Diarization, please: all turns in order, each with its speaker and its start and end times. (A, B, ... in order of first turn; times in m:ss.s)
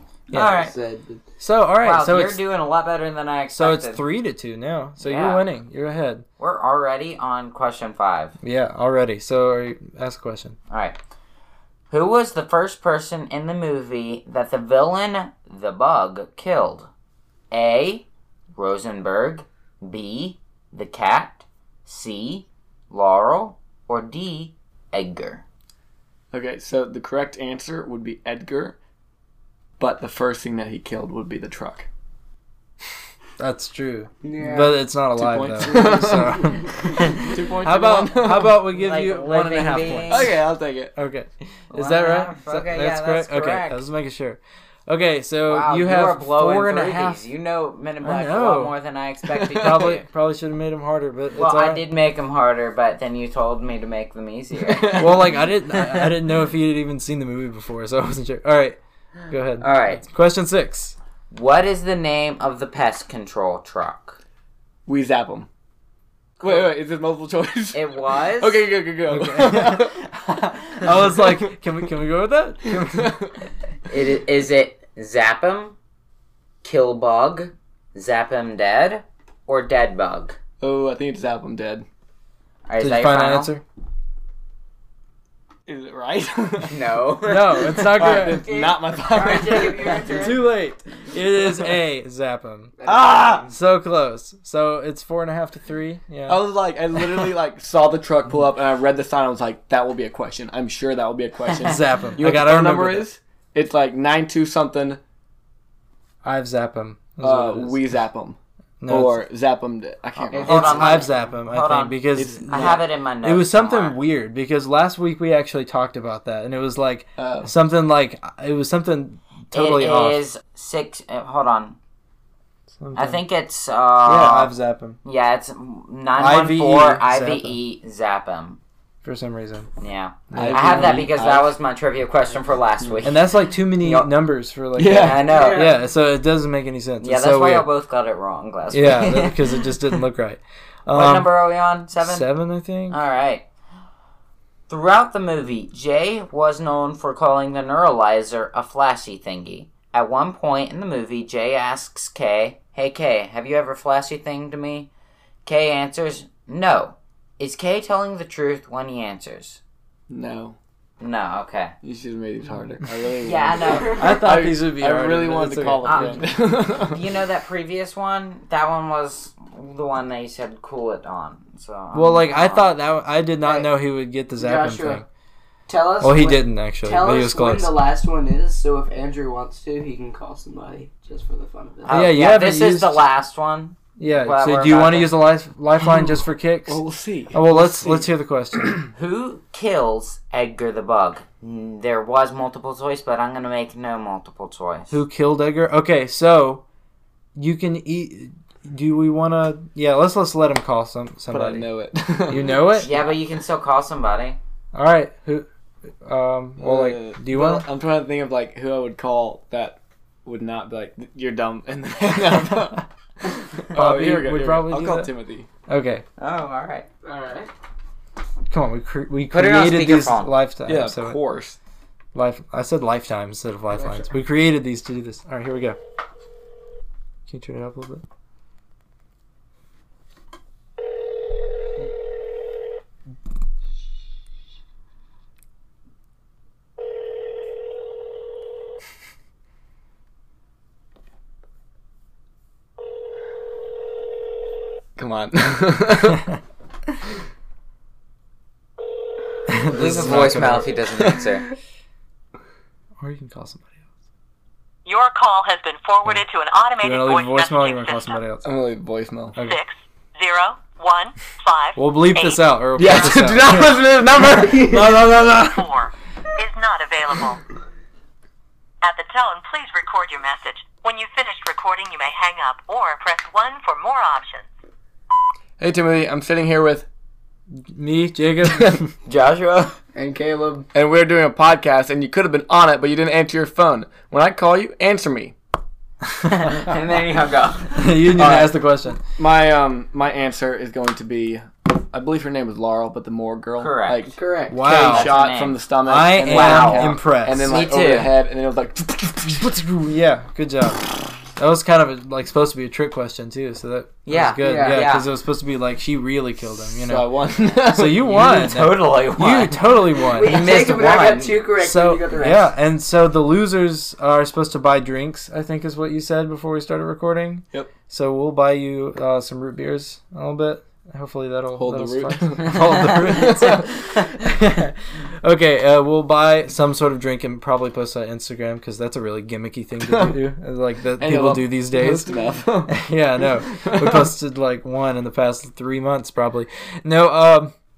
0:00.3-0:00.6 A
0:00.3-0:00.7 B
0:00.4-0:01.2 C
0:01.4-0:02.4 A
0:01.8-0:04.0 B
0:03.5-0:06.2 A
0:05.0-0:05.4 B
0:06.4-0:08.4 B
0:08.4-0:10.6 A
0:10.7-0:11.0 B
0:11.9-0:16.9 B
0:17.5-0:25.4 B
0:26.3-0:28.8 D
0:29.8-0:31.9 D
0:33.4-0:40.4 A
0:34.2-0:34.8 C
0:35.2-0:36.5 D
0:35.6-0:36.8 C
0:37.1-0:38.6 D
0:38.8-0:40.4 B
0:40.1-0:40.9 D
0:41.0-0:47.2 A
0:41.7-0:43.8 B
0:45.5-0:50.1 B
0:48.0-0:48.8 A
0:49.3-0:50.0 D
0:49.6-0:51.8 A
0:51.4-0:55.2 B
0:54.7-0:55.3 D
0:55.0-0:58.8 A
0:55.7-0:56.1 B
0:59.3-1:01.0 A
0:59.6-1:00.0 B
1:01.3-1:04.2 B
1:04.9-1:05.5 D
1:06.4-1:06.7 B
1:06.4-1:10.0 D
1:07.7-1:08.6 B
1:09.1-1:13.1 A
1:10.8-1:11.5 D
1:12.7-1:13.3 D
1:13.9-1:15.8 B
1:16.6-1:20.4 B
1:20.6-1:21.9 D
1:22.7-1:23.5 B
1:22.8-1:23.6 A
1:25.7-1:27.0 D
1:26.6-1:27.9 B
1:27.2-1:28.5 A
1:27.6-1:30.3 D
1:28.0-1:30.5 C
1:30.0-1:32.8 A
1:32.8-1:33.4 C
1:32.8-1:33.5 D
1:33.4-1:37.3 A
1:36.3-1:45.0 D
1:41.6-1:43.1 A
1:46.2-1:47.8 A
1:47.2-1:48.4 D
1:48.8-1:49.2 A
1:48.9-1:51.0 D
1:50.3-1:51.2 C
1:50.3-1:54.0 B
1:50.4-2:00.2 A
1:52.1-1:52.8 D
1:57.2-1:57.5 D
1:59.5-2:01.8 B
2:02.8-2:03.2 A
2:03.0-2:04.5 B
2:04.0-2:05.0 A
2:05.0-2:08.6 B
2:06.2-2:07.6 A
2:09.0-2:09.7 A
2:09.8-2:14.1 B
2:10.3-2:11.1 A
2:10.4-2:11.5 D
2:13.0-2:17.7 A
2:14.8-2:15.3 D
2:14.9-2:15.7 B
2:15.3-2:15.7 C
2:17.0-2:19.9 B
2:18.7-2:21.3 A
2:20.9-2:22.3 B
2:22.0-2:23.0 A
2:22.9-2:23.4 B
2:24.7-2:34.9 B
2:35.4-2:39.6 B
2:40.1-2:40.6 D
2:41.0-2:41.8 B
2:41.8-2:47.0 D
2:43.2-2:44.2 B
2:43.9-2:46.2 A
2:45.8-2:52.7 B
2:51.9-2:55.1 A
2:53.4-2:53.7 C
2:54.4-2:55.0 C
2:55.7-3:02.0 C
2:56.0-2:57.7 A
3:01.8-3:05.2 B
3:01.9-3:03.0 A
3:04.0-3:08.8 A
3:06.7-3:08.8 D
3:08.9-3:15.0 B
3:14.9-3:16.6 A
3:17.4-3:21.7 A
3:21.3-3:23.1 D
3:22.3-3:22.9 A
3:22.8-3:24.4 B
3:24.7-3:25.5 A
3:26.0-3:27.7 A
3:26.6-3:35.5 D
3:33.7-3:35.1 A
3:35.7-3:36.0 A
3:36.2-3:36.9 B
3:37.0-3:37.5 C
3:38.5-3:41.2 A
3:39.3-3:40.3 B
3:40.7-3:41.6 D
3:42.1-3:45.8 A
3:43.8-3:44.0 C
3:47.3-3:48.0 A
4:05.0-4:06.3 D
4:09.5-4:10.7 A
4:09.7-4:11.5 B
4:09.8-4:11.2 D
4:13.0-4:13.7 A
4:14.9-4:18.2 E
4:16.8-4:18.5 A
4:18.4-4:19.4 D
4:19.4-4:23.3 E
4:21.8-4:25.4 A
4:22.8-4:25.5 D
4:24.5-4:24.8 C
4:24.8-4:27.4 E
4:28.8-4:34.5 E
4:35.6-4:36.9 D
4:37.6-4:38.9 A
4:38.5-4:38.8 D
4:39.1-4:39.8 B
4:40.0-4:40.7 C
4:40.7-4:45.4 D
4:46.2-4:46.5 A
4:46.3-4:48.0 B
4:47.8-4:49.0 A
4:48.2-4:48.5 D
4:49.2-4:59.5 D
4:53.6-4:54.0 B
4:54.2-4:54.6 C
4:54.5-4:55.2 A
4:54.7-4:55.6 B
4:55.9-4:57.5 A
4:56.2-4:58.1 B
4:59.4-5:00.8 A
5:01.4-5:10.8 A
5:04.1-5:05.1 B
5:04.4-5:04.8 C
5:06.8-5:08.2 D
5:08.0-5:11.4 B
5:10.0-5:12.5 C
5:11.6-5:37.5 A
5:21.6-5:23.7 D
5:29.8-5:30.2 D
5:31.0-5:32.8 D
5:33.3-5:34.1 D